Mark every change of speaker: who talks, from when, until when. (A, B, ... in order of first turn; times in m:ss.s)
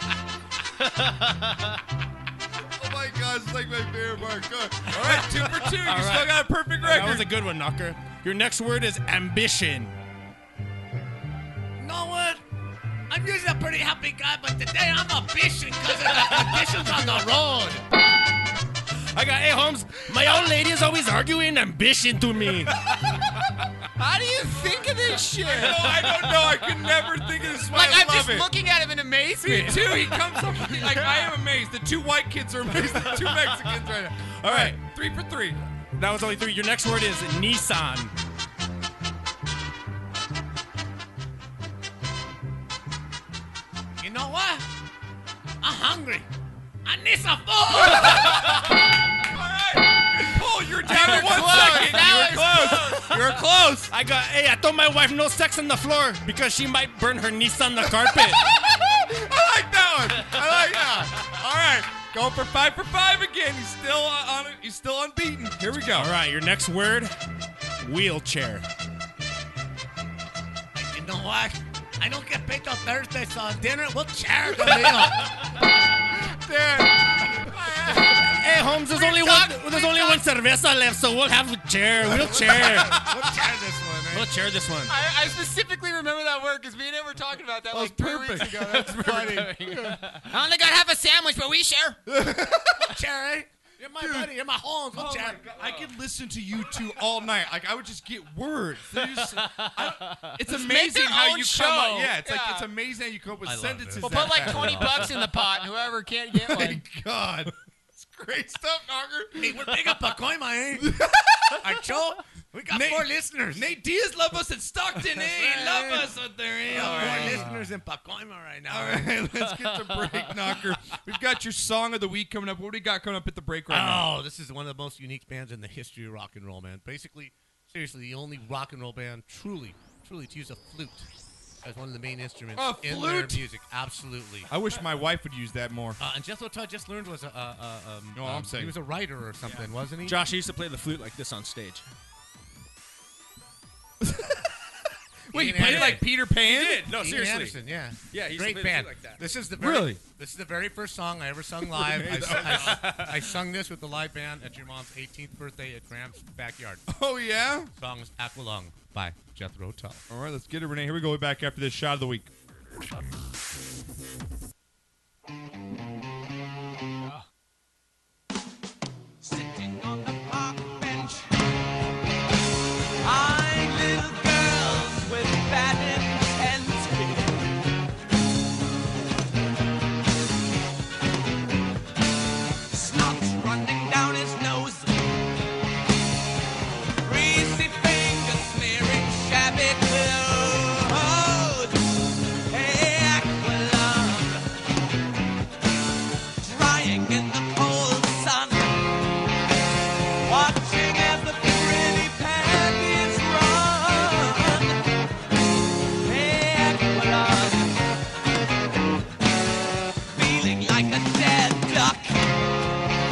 0:00.8-0:01.6 A
0:02.6-0:07.3 B
0:04.9-0:09.9 A
0:11.8-0:12.4 C
0:13.1-0:17.8 C
0:19.1-0:22.7 A
0:24.0-0:26.0 D
0:25.4-0:28.5 B
0:27.7-0:31.3 D
0:29.4-0:35.6 B
0:32.8-0:33.5 A
0:34.4-0:34.8 A
0:36.0-0:38.1 A
0:44.0-0:44.6 C
0:45.6-0:46.3 C
0:46.8-0:48.7 C
0:47.8-0:48.7 B
0:49.2-0:53.9 B
0:50.9-0:52.1 A
0:51.2-0:53.1 D
0:52.7-0:53.2 A
0:53.9-0:58.5 A
0:57.8-1:06.1 B
1:05.9-1:07.2 A
1:07.8-1:08.7 A
1:10.7-1:15.4 C
1:16.5-1:16.9 C
1:17.9-1:23.0 A
1:19.0-1:20.2 D
1:22.0-1:24.3 C
1:22.0-1:23.2 B
1:24.1-1:24.9 A
1:24.9-1:32.0 D
1:27.7-1:30.0 B
1:32.1-1:32.8 B
1:32.7-1:35.4 C
1:34.0-1:34.3 B
1:34.9-1:45.2 B
1:40.2-1:42.6 D
1:43.4-1:45.2 C
1:44.0-1:46.8 D
1:46.3-1:49.7 B
1:49.4-1:50.9 C
1:50.8-1:51.8 B
1:51.6-1:53.7 C
1:52.7-1:57.6 B
1:55.0-1:56.1 C
1:56.7-1:59.2 C
1:58.7-2:04.1 B
2:03.7-2:11.1 C
2:11.6-2:14.5 C
2:12.5-2:13.4 B
2:14.5-2:16.0 B
2:16.0-2:20.2 C
2:18.1-2:18.8 B
2:20.0-2:21.8 A
2:24.0-2:24.4 B
2:25.3-2:26.9 B
2:25.3-2:26.1 C
2:25.6-2:27.6 A
2:26.9-2:36.8 C
2:28.1-2:29.2 A
2:29.6-2:30.0 B
2:31.7-2:32.9 B
2:31.9-2:33.2 A
2:36.9-2:37.7 B
2:37.8-2:40.0 C
2:40.1-2:42.3 B
2:49.2-2:51.3 E
2:53.0-2:57.4 E
3:02.7-3:05.1 E
3:07.0-3:11.8 E
3:12.5-3:14.4 E
3:16.4-3:18.8 E
3:20.2-3:24.8 E
3:26.0-3:27.8 E
3:30.1-3:32.3 E